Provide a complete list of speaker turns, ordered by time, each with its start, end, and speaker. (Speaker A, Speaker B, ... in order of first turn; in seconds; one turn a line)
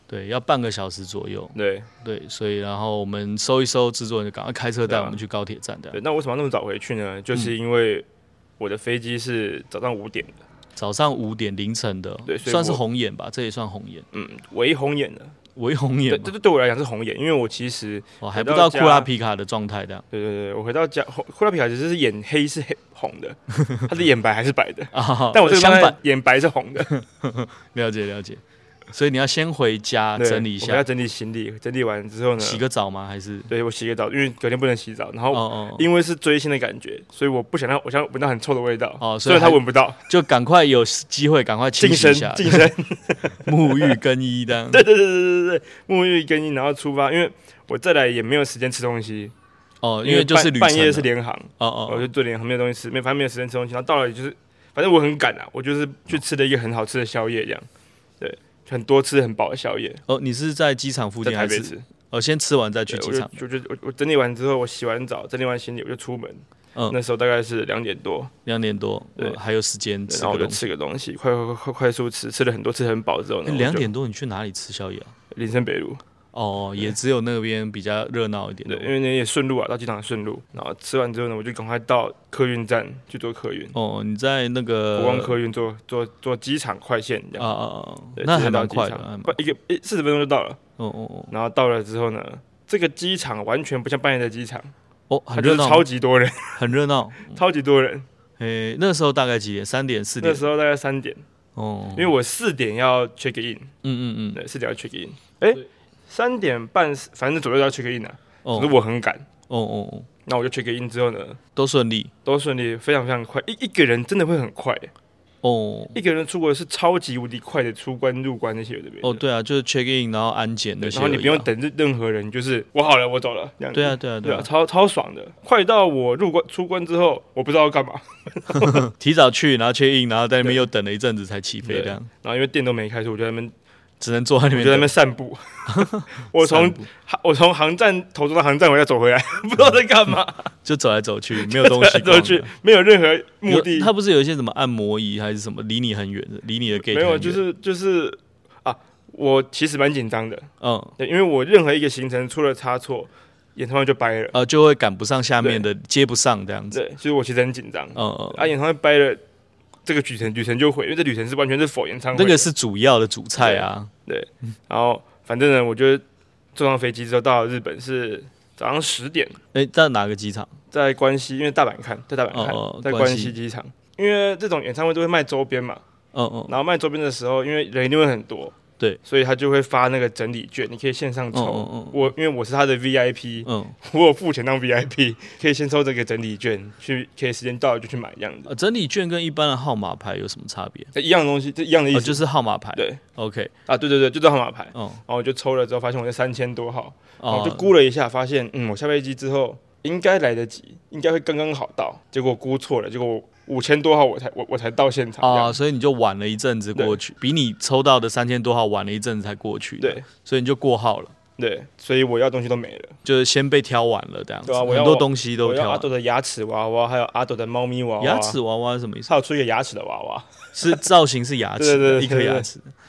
Speaker A: 0.1-6.0
Speaker B: 1.6-1.9
Speaker B: 4.9-5.2
Speaker B: 5.9-8.1
Speaker B: 8.6-10.3
Speaker A: 10.8-14.1
Speaker B: 12.3-12.8
Speaker B: 14.1-15.3
Speaker A: 15.6-16.3
Speaker B: 16.1-19.1
Speaker A: 18.2-20.1
Speaker B: 20.1-26.9
Speaker A: 24.9-26.0
Speaker A: 26.9-28.4
Speaker A: 28.9-30.9
Speaker B: 30.2-32.6
Speaker A: 32.4-33.5
Speaker B: 33.5-40.0
Speaker A: 35.3-35.9
Speaker A: 39.0-42.7
Speaker B: 41.8-44.0
Speaker A: 43.4-44.9
Speaker B: 44.7-49.3
Speaker A: 49.8-52.1
Speaker B: 50.0-57.6
Speaker B: 58.2-60.0
Speaker A: 60.1-63.4
Speaker B: 61.2-61.9
Speaker B: 62.9-68.3
Speaker A: 68.5-70.7
Speaker B: 70.1-73.9
Speaker A: 73.5-75.1
Speaker B: 75.3-76.0
Speaker A: 76.3-78.9
Speaker B: 78.7-83.8
Speaker A: 83.7-85.4
Speaker B: 85.0-87.5
Speaker A: 87.4-89.4
Speaker B: 88.2-90.6
Speaker A: 90.8-91.3
Speaker B: 91.3-94.7
Speaker A: 95.1-95.9
Speaker B: 95.3-96.6
Speaker A: 96.6-97.4
Speaker B: 97.3-98.1
Speaker A: 98.4-100.5
Speaker B: 100.2-101.2
Speaker A: 101.5-102.1
Speaker B: 101.9-103.7
Speaker A: 103.8-104.4
Speaker B: 104.3-109.3
Speaker A: 108.5-108.7
Speaker A: 109.5-110.1
Speaker B: 110.3-111.4
Speaker A: 111.6-112.1
Speaker B: 112.2-114.9
Speaker A: 115.4-116.0
Speaker B: 115.9-119.2
Speaker A: 119.0-121.5
Speaker B: 120.8-128.9
Speaker A: 123.7-124.5
Speaker A: 128.6-132.1
Speaker B: 131.6-133.5
Speaker A: 134.0-134.9
Speaker B: 134.5-140.5
Speaker A: 135.7-136.9
Speaker A: 140.7-142.5
Speaker B: 141.4-143.9
Speaker A: 143.5-147.4
Speaker B: 146.8-154.4
Speaker A: 150.6-150.9
Speaker A: 154.3-156.8
Speaker B: 156.7-159.2
Speaker A: 157.9-158.5
Speaker B: 159.9-162.5
Speaker A: 162.1-163.9
Speaker B: 163.4-166.0
Speaker B: 166.6-169.4
Speaker A: 169.5-170.5
Speaker B: 170.7-175.8
Speaker A: 172.3-173.4
Speaker A: 176.1-176.6
Speaker B: 176.5-188.5
Speaker A: 181.3-182.1
Speaker A: 183.5-183.8
Speaker A: 188.5-190.9
Speaker B: 190.9-192.2
Speaker A: 191.9-193.5
Speaker B: 192.8-193.0
Speaker B: 193.7-205.6
Speaker A: 194.7-195.0
Speaker A: 197.2-197.7
Speaker A: 205.2-211.1
Speaker B: 211.4-213.0
Speaker A: 213.1-215.9
Speaker B: 214.5-218.4
Speaker A: 218.0-219.1
Speaker B: 219.1-220.9
Speaker A: 220.6-222.7
Speaker B: 221.6-222.5